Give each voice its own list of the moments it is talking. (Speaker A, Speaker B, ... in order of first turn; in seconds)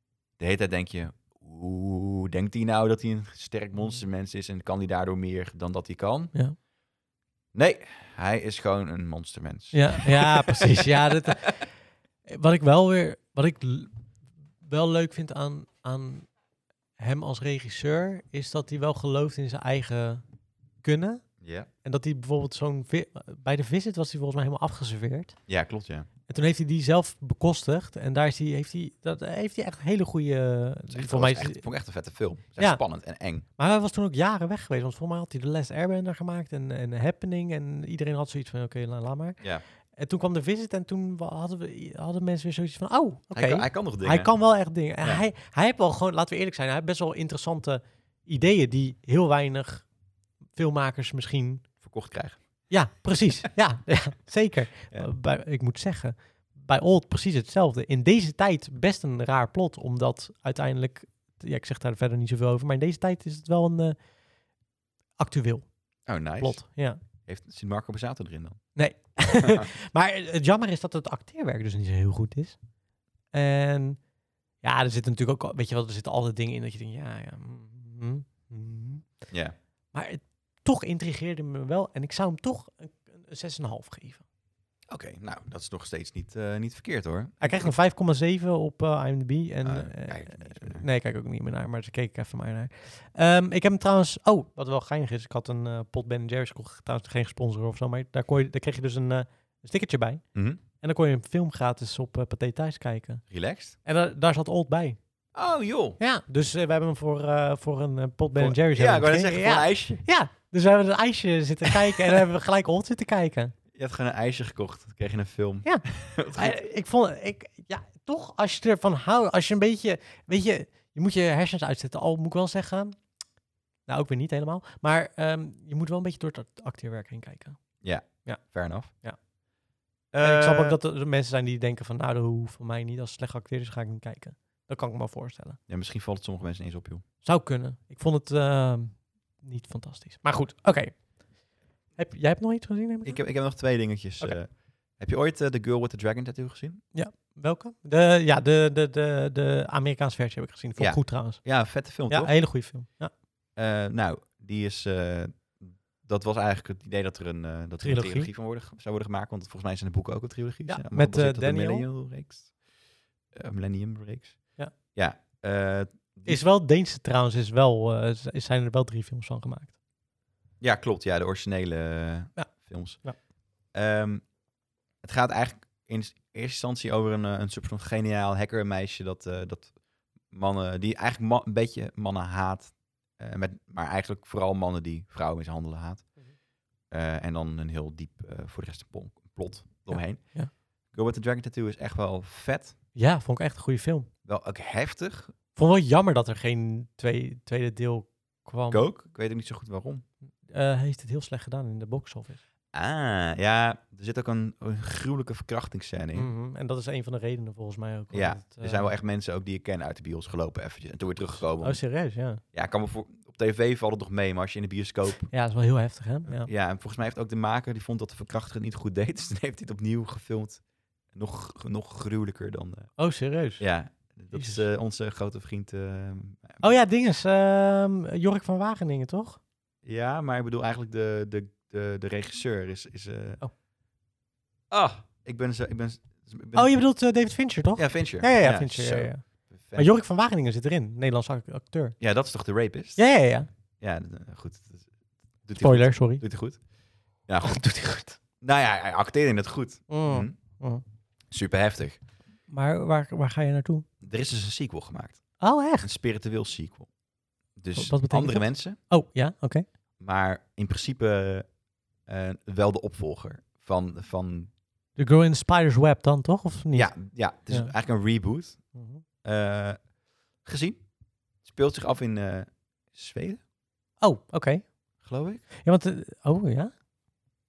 Speaker A: 0.4-6.3, 7.5-11.4, 21.4-21.7, 25.5-26.1, 30.9-33.5, 43.3-44.3, 51.8-52.7, 66.1-66.7, 67.2-68.6, 69.3-69.7, 84.9-87.7, 89.6-90.8, 100.3-100.6, 103.3-103.8, 105.3-106.0, 108.4-110.0, 111.7-112.2, 113.7-116.6, 127.8-128.9, 130.1-130.8, 135.7-137.0, 143.0-146.8, 150.8-152.5, 153.6-162.5, 163.3-166.4, 170.6-173.0, 173.7-174.2, 175.0-179.7, 180.3-186.1, 186.9-192.8, 194.2-195.3, 198.7-200.1, 202.7-206.3, 208.1-211.8, 212.5-215.3, 216.3-220.6, 221.1-222.9, 223.6-226.6, 229.8-233.4, 234.7-236.8, 237.8-239.9, 242.0-243.0, 243.8-244.9, 245.4-246.6, 247.3-247.6, 248.4-250.4, 251.3-252.0, 254.0-256.9, 257.6-258.8, 260.0-261.5, 262.1-264.5, 266.7-268.6, 269.2-269.8, 270.4-270.8, 271.4-273.4, 275.0-275.4
Speaker B: 9.7-11.6, 12.3-13.9, 14.6-16.3, 17.0-20.2, 20.8-21.2, 21.8-25.4, 26.3-31.6, 33.6-39.4, 40.0-49.9, 50.6-51.6, 52.7-64.0, 65.2-65.7, 66.4-67.0, 68.8-72.6, 73.3-74.0, 74.6-79.1, 79.9-84.2, 87.4-100.2, 100.8-103.2, 103.8-105.0, 106.0-113.5, 115.7-123.0, 123.9-127.6, 130.2-135.6, 137.2-141.2, 142.0-143.2, 146.9-153.1, 157.8-158.3, 160.7-161.9, 166.3-169.7, 189.9-190.5, 192.9-194.1, 195.6-198.8, 200.4-202.4, 206.1-208.9, 211.6-212.4, 215.3-216.5, 223.0-223.7, 224.3-224.6, 226.6-229.4, 236.6-239.2, 239.8-242.0, 243.0-243.5, 245.6-246.2, 247.4-248.2, 249.9-250.8, 252.5-253.9, 255.4-255.9, 257.8-259.7, 265.0-267.0, 268.8-269.0, 274.0-274.7, 275.6-276.7